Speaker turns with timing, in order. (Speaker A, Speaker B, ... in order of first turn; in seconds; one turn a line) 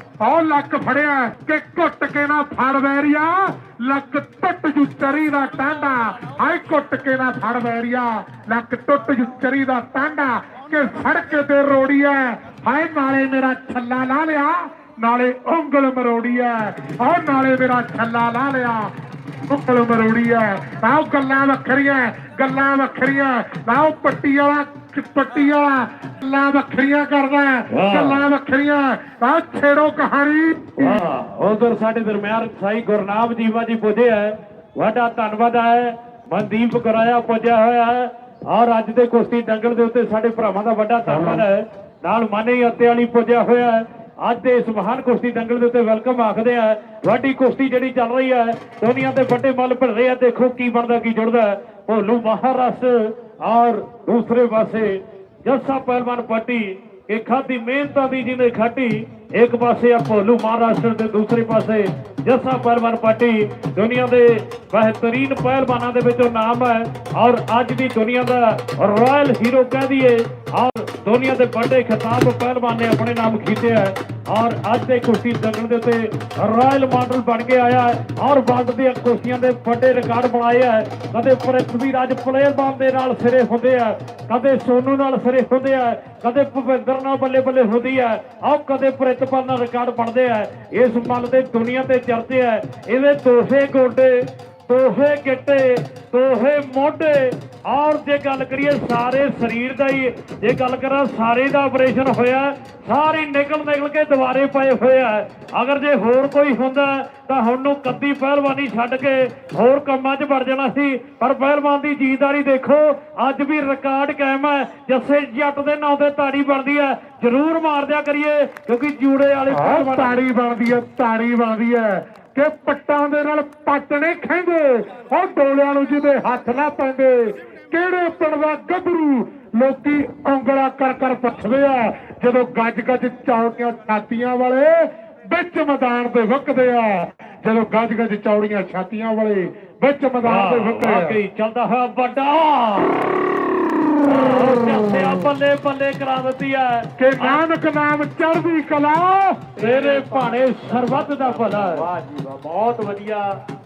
Speaker A: 0.2-18.9
Speaker A: 19.5-31.0
Speaker B: 27.7-28.2
Speaker B: 30.8-94.1
Speaker B: 94.7-120.2
Speaker A: 119.5-141.2
Speaker B: 140.2-143.2
Speaker B: 144.0-147.4
Speaker A: 147.0-149.4
Speaker C: 149.6-153.3
Speaker B: 149.6-151.8